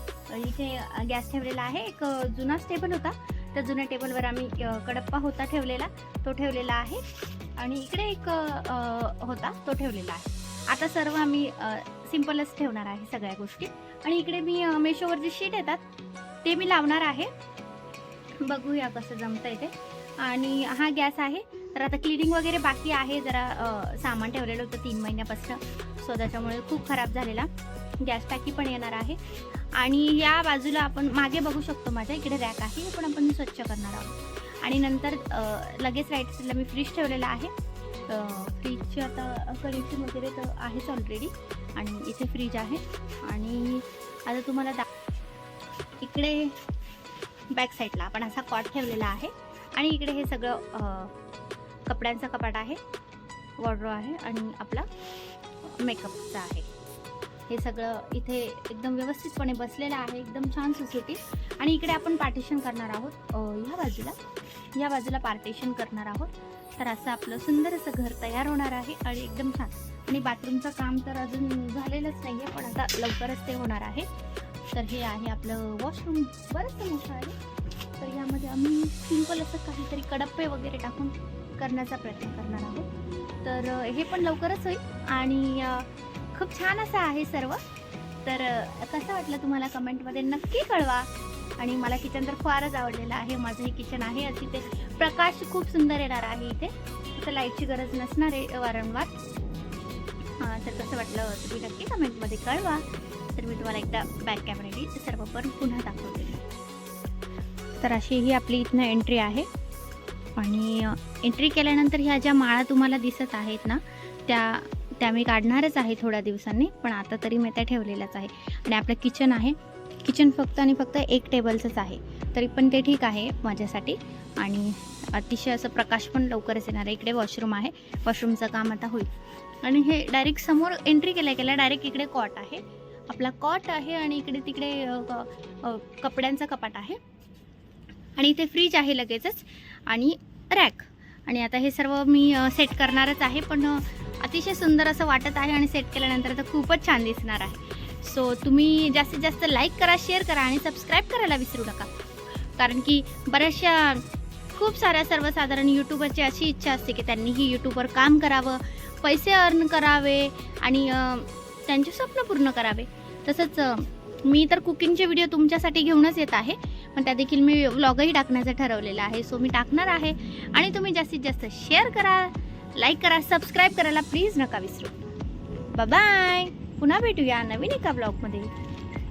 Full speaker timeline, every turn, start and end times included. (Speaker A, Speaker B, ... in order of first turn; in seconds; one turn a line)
Speaker A: 0.3-7.0
Speaker A: 7.6-15.8
Speaker A: 16.4-17.3
Speaker A: 18.4-27.5
Speaker A: 28.0-37.5
Speaker A: 38.1-44.9
Speaker A: 46.0-46.6
Speaker A: 47.5-51.1
Speaker A: 51.9-52.8
Speaker A: 53.6-54.9
Speaker A: 55.6-56.7
Speaker A: 57.5-64.2
Speaker A: 64.7-74.1
Speaker A: 74.7-77.4
Speaker A: 78.0-82.9
Speaker A: 83.4-87.6
Speaker A: 88.2-99.2
Speaker A: 100.4-106.4
Speaker A: 107.7-109.5
Speaker A: 110.3-137.0
Speaker A: 138.2-151.9
Speaker A: 152.6-175.1
Speaker A: 175.7-178.5